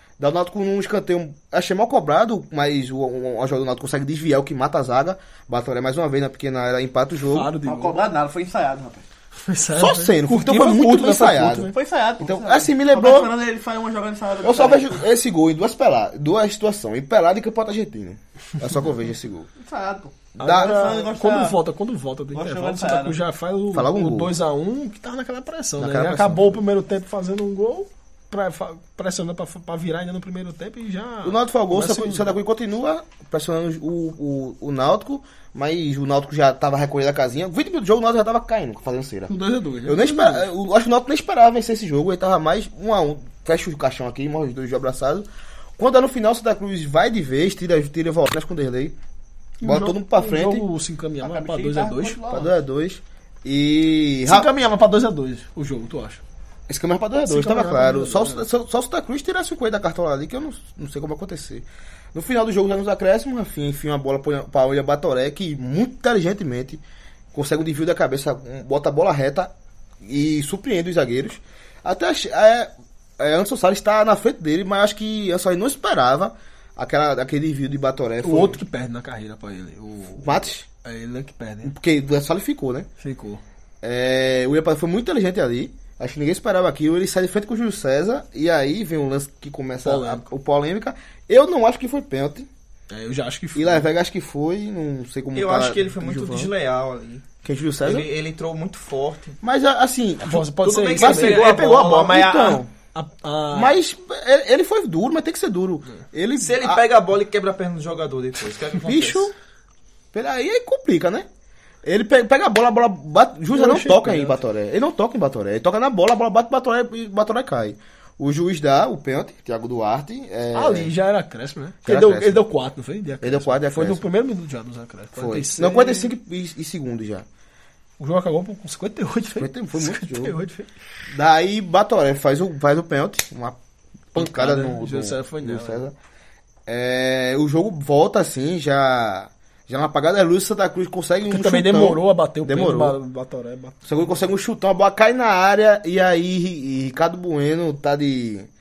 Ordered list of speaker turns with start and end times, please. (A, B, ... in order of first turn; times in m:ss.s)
0:00.2-0:07.5 A
0:07.2-0:08.0 B
0:07.6-0:09.0 C
0:09.3-0:11.7 B
0:09.7-0:13.3 A
0:11.7-0:15.0 C
0:14.4-0:19.5 A
0:19.6-0:21.6 C
0:20.4-0:32.3 B
0:20.4-0:20.9 A
0:22.3-0:23.2 C
0:23.7-0:24.3 A
0:25.8-0:26.6 A
0:31.2-0:39.3 A
0:39.3-0:40.5 B
0:39.8-0:48.9 A
0:49.6-0:52.3 B
0:49.6-0:50.6 A
0:51.2-0:52.5 C
0:52.2-0:54.5 A
0:54.2-0:56.2 B
0:56.7-1:06.8 A
0:57.3-0:58.4 B
1:07.3-1:18.6 A
1:18.2-1:21.7 B
1:20.2-1:20.6 A
1:21.6-1:22.9 A
1:23.0-1:23.4 B
1:23.8-1:32.5 A
1:29.8-1:30.3 B
1:32.9-1:33.9 B
1:33.5-1:36.5 A
1:35.3-1:37.2 D
1:37.4-1:38.1 A
1:37.8-1:39.4 D
1:39.4-1:42.7 A
1:40.2-1:41.4 B
1:40.6-1:42.6 D
1:42.9-1:43.8 B
1:43.5-1:46.8 A
1:46.4-1:49.3 D
1:48.8-1:49.3 A
1:50.1-1:51.2 A
1:51.8-2:00.9 A
1:53.5-1:54.4 B
2:00.5-2:06.1 B
2:01.8-2:02.4 A
2:03.2-2:04.0 A
2:05.2-2:07.2 A
2:08.0-2:10.7 B
2:09.4-2:10.4 A
2:11.1-2:13.6 A
2:14.1-2:15.9 A
2:14.1-2:15.8 B
2:16.6-2:23.0 A
2:21.3-2:23.9 B
2:23.8-2:28.5 A